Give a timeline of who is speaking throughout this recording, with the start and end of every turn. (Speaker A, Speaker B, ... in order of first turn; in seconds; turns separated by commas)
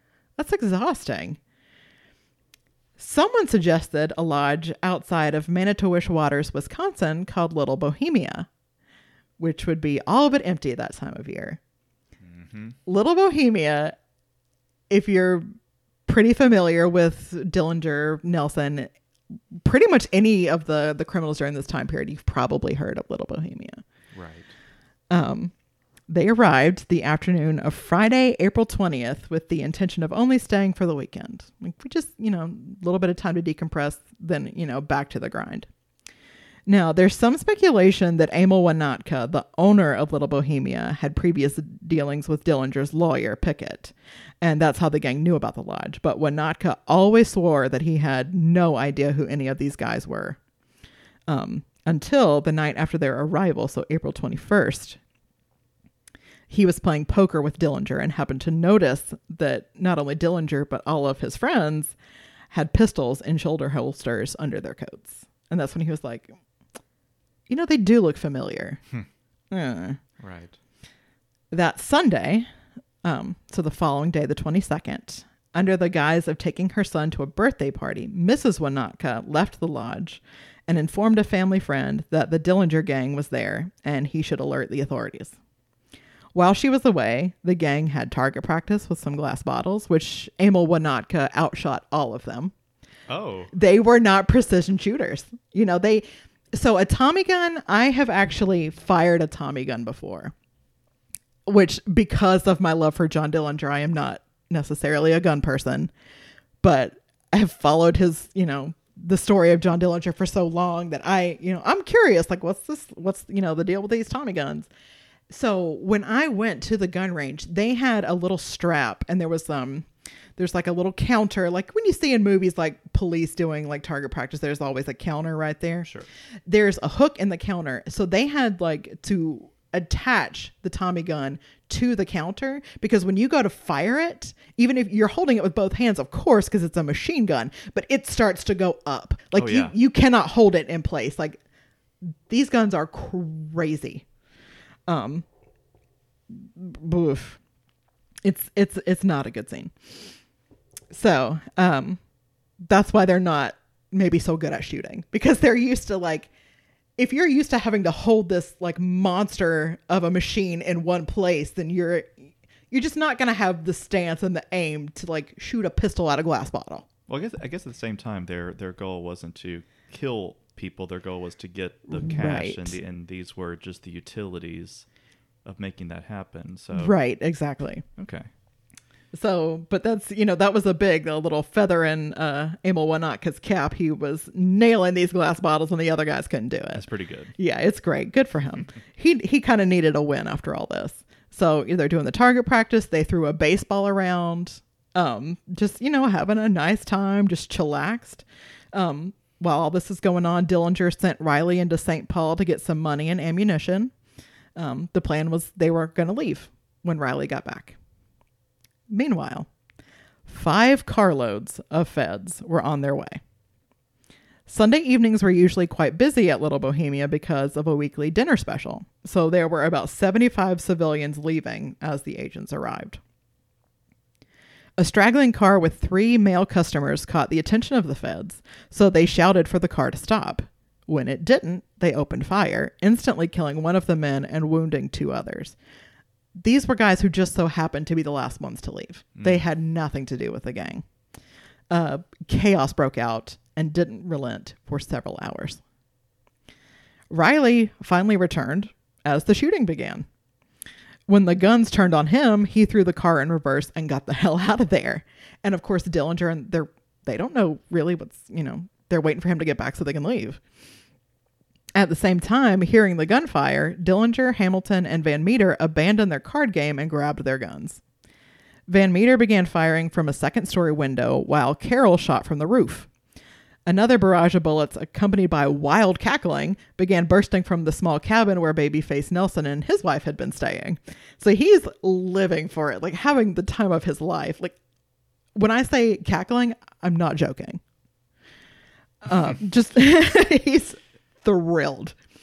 Speaker A: 0.4-1.4, Speaker A: 3.0-8.5, Speaker A: 9.4-11.6, Speaker B: 12.2-12.8, Speaker A: 12.9-13.9, Speaker A: 14.9-15.4, Speaker A: 16.1-18.9, Speaker A: 19.6-23.8, Speaker B: 24.1-24.5, Speaker A: 25.1-25.5, Speaker A: 26.1-35.7, Speaker A: 36.7-50.4, Speaker A: 51.3-55.0, Speaker A: 56.5-61.9, Speaker A: 62.5-66.3, Speaker A: 67.5-68.8, Speaker A: 69.5-70.0, Speaker B: 70.2-70.6, Speaker A: 71.5-72.5, Speaker A: 73.0-85.3, Speaker A: 86.3-92.5, Speaker B: 93.1-93.5, Speaker A: 93.5-100.3, Speaker A: 101.5-105.9, Speaker A: 106.6-114.7, Speaker A: 115.3-125.9, Speaker B: 125.8-126.1, Speaker A: 126.5-141.4, Speaker B: 139.3-139.7, Speaker A: 142.3-144.0, Speaker A: 144.9-145.2, Speaker A: 146.3-147.4, Speaker A: 148.2-149.7, Speaker A: 150.9-152.0, Speaker A: 152.6-156.3, Speaker A: 157.0-166.9, Speaker B: 167.1-174.8, Speaker A: 171.9-172.8, Speaker B: 175.4-176.9, Speaker A: 176.7-177.8, Speaker B: 178.0-178.3, Speaker A: 179.1-186.8, Speaker B: 186.7-187.3, Speaker A: 187.4-203.9, Speaker A: 204.6-207.8, Speaker A: 208.9-209.5, Speaker A: 210.3-213.2, Speaker A: 214.5-223.0, Speaker A: 224.8-235.6, Speaker A: 236.4-240.8, Speaker B: 239.2-239.4, Speaker A: 241.7-245.6, Speaker A: 247.1-250.1, Speaker A: 251.1-260.4, Speaker A: 261.7-267.8, Speaker A: 268.7-272.9, Speaker A: 273.7-284.6, Speaker A: 285.4-287.6, Speaker A: 289.0-291.9